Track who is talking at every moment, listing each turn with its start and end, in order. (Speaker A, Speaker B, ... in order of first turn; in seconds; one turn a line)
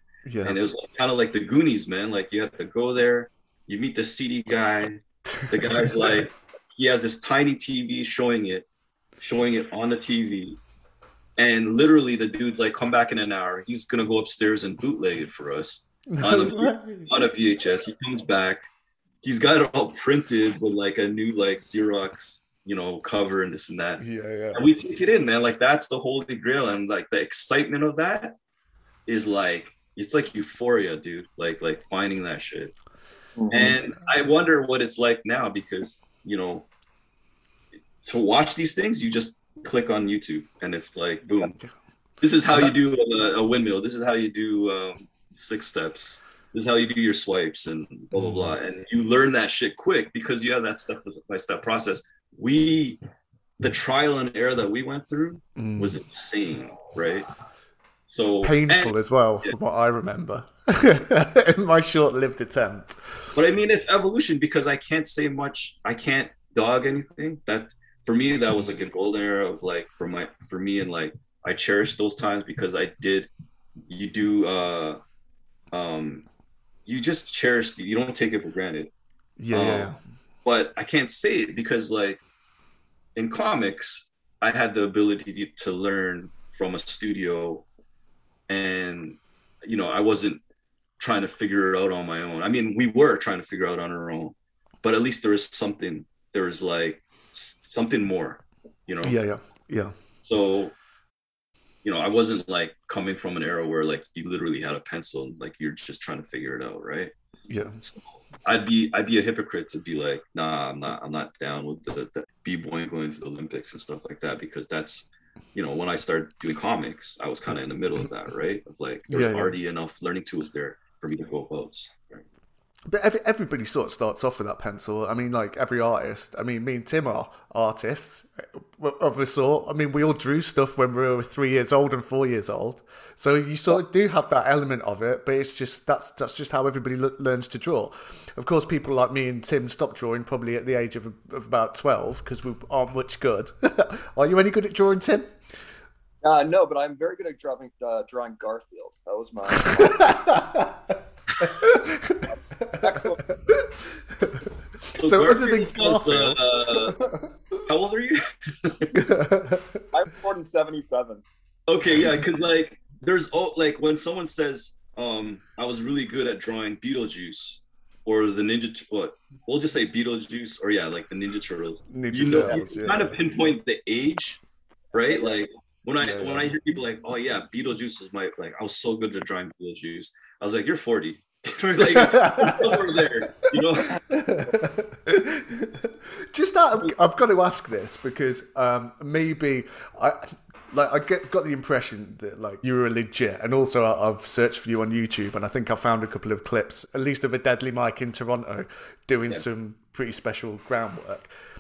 Speaker A: 0.3-0.6
Speaker B: 0.4-8.7
Speaker A: 5.3-6.2
Speaker B: 9.2-10.6
Speaker B: 11.4-18.6
Speaker A: 16.1-17.1
Speaker B: 19.2-24.0
Speaker A: 24.0-24.7
Speaker B: 24.5-28.4
Speaker B: 29.1-32.7
Speaker C: 33.4-33.7
Speaker B: 33.5-36.7
Speaker A: 33.5-34.1
Speaker B: 38.0-41.6
Speaker B: 42.2-53.0
Speaker A: 48.1-48.6
Speaker B: 53.6-57.3
Speaker A: 55.6-56.0
Speaker B: 58.1-58.9
Speaker A: 58.4-63.3
Speaker B: 63.4-73.3
Speaker B: 73.9-75.0
Speaker B: 75.7-76.3
Speaker B: 76.9-78.9
Speaker A: 79.4-80.0
Speaker B: 79.5-79.9
Speaker B: 80.5-82.2
Speaker B: 83.2-87.7
Speaker B: 88.5-90.4
Speaker B: 91.0-99.2
Speaker A: 99.0-99.9
Speaker B: 100.2-100.8
Speaker B: 101.8-107.1
Speaker A: 107.5-107.8
Speaker B: 107.8-122.2
Speaker A: 119.1-119.5
Speaker A: 122.9-145.3
Speaker C: 146.2-150.2
Speaker A: 149.6-157.3
Speaker C: 152.8-153.2
Speaker B: 155.0-157.0
Speaker B: 157.7-158.9
Speaker A: 158.9-159.9
Speaker C: 159.9-161.2
Speaker B: 161.7-174.4
Speaker A: 171.9-173.2
Speaker B: 174.9-184.0
Speaker A: 176.0-176.6
Speaker A: 181.8-182.8
Speaker A: 184.1-201.3